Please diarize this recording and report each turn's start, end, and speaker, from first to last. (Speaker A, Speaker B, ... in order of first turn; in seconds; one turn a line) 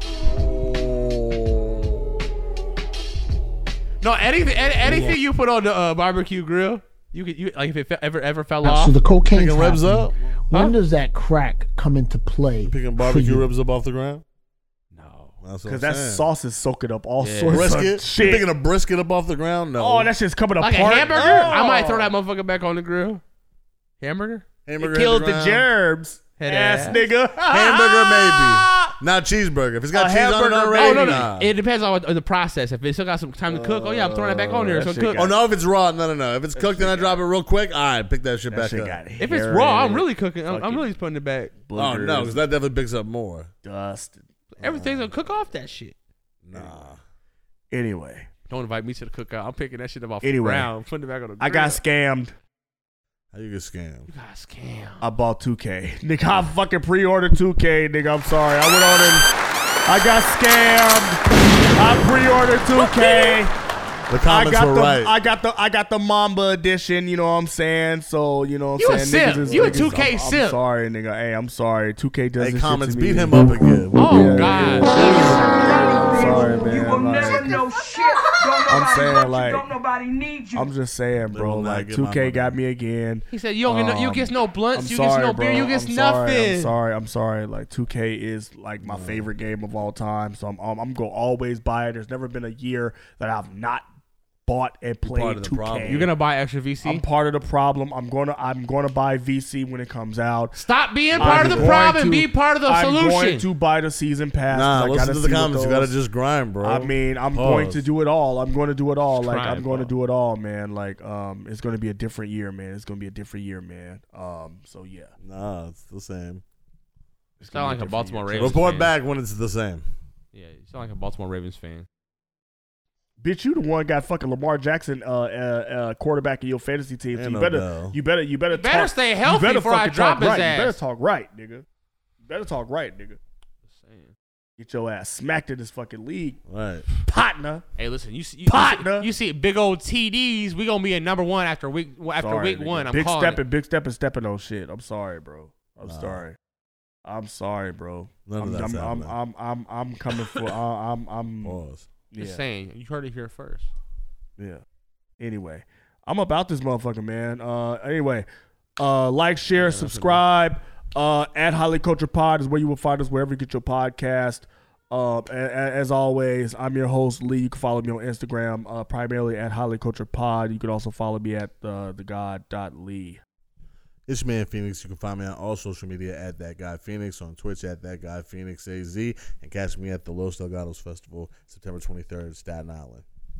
Speaker A: 0.2-2.1
Speaker B: 4.0-8.9
Speaker A: 4.8-5.2
Speaker C: 8.6-13.4
Speaker A: 9.2-10.1
Speaker A: 12.6-14.2
Speaker B: 14.9-15.3
Speaker A: 15.4-16.2
Speaker D: 15.7-18.5
Speaker B: 17.2-17.7
Speaker A: 17.5-20.1
Speaker D: 19.8-22.1
Speaker B: 20.6-23.2
Speaker A: 21.1-21.5
Speaker B: 24.0-24.4
Speaker A: 24.6-25.7
Speaker D: 24.8-28.9
Speaker B: 26.4-27.1
Speaker A: 27.5-31.5
Speaker D: 29.9-31.3
Speaker B: 30.8-35.3
Speaker A: 33.5-39.0
Speaker D: 34.4-35.4
Speaker D: 36.5-37.2
Speaker D: 38.5-40.9
Speaker B: 39.2-41.5
Speaker D: 41.6-42.4
Speaker A: 41.8-43.5
Speaker D: 43.6-44.3
Speaker B: 44.6-46.0
Speaker A: 44.6-45.1
Speaker A: 46.4-47.0
Speaker D: 46.5-46.8
Speaker D: 47.7-48.3
Speaker B: 48.5-51.8
Speaker D: 50.2-50.7
Speaker D: 51.4-52.3
Speaker A: 53.3-54.1
Speaker B: 54.1-55.0
Speaker D: 55.0-59.3
Speaker D: 59.9-61.2
Speaker D: 61.8-63.5
Speaker B: 62.7-63.4
Speaker A: 64.1-65.1
Speaker D: 64.2-73.4
Speaker B: 68.8-70.6
Speaker A: 72.4-74.0
Speaker B: 74.0-75.5
Speaker D: 74.0-77.6
Speaker E: 75.4-80.7
Speaker D: 78.7-79.7
Speaker D: 80.5-93.9
Speaker A: 81.3-82.6
Speaker B: 83.3-86.7
Speaker A: 88.8-89.3
Speaker D: 94.5-96.1
Speaker A: 95.0-96.1
Speaker B: 95.9-97.0
Speaker D: 96.8-100.5
Speaker B: 100.5-103.4
Speaker A: 101.1-101.8
Speaker D: 101.2-105.9
Speaker A: 104.5-107.9
Speaker D: 106.6-115.1
Speaker B: 109.1-109.9
Speaker A: 115.2-116.4
Speaker D: 117.4-118.6
Speaker B: 117.5-118.9
Speaker A: 118.3-119.8
Speaker B: 120.3-121.9
Speaker D: 123.2-131.6
Speaker A: 127.1-127.9
Speaker B: 128.5-130.8
Speaker D: 132.2-133.2
Speaker B: 133.7-134.1
Speaker D: 134.6-136.4
Speaker A: 136.5-136.8
Speaker D: 136.9-137.6
Speaker B: 137.8-143.4
Speaker D: 138.4-139.1
Speaker D: 142.1-146.3
Speaker A: 145.8-146.2
Speaker D: 147.0-151.6
Speaker A: 148.2-149.1
Speaker A: 151.4-151.9
Speaker D: 152.1-152.4
Speaker B: 152.2-153.7
Speaker D: 155.2-158.3
Speaker D: 158.8-173.2
Speaker B: 159.5-160.2
Speaker A: 174.1-183.0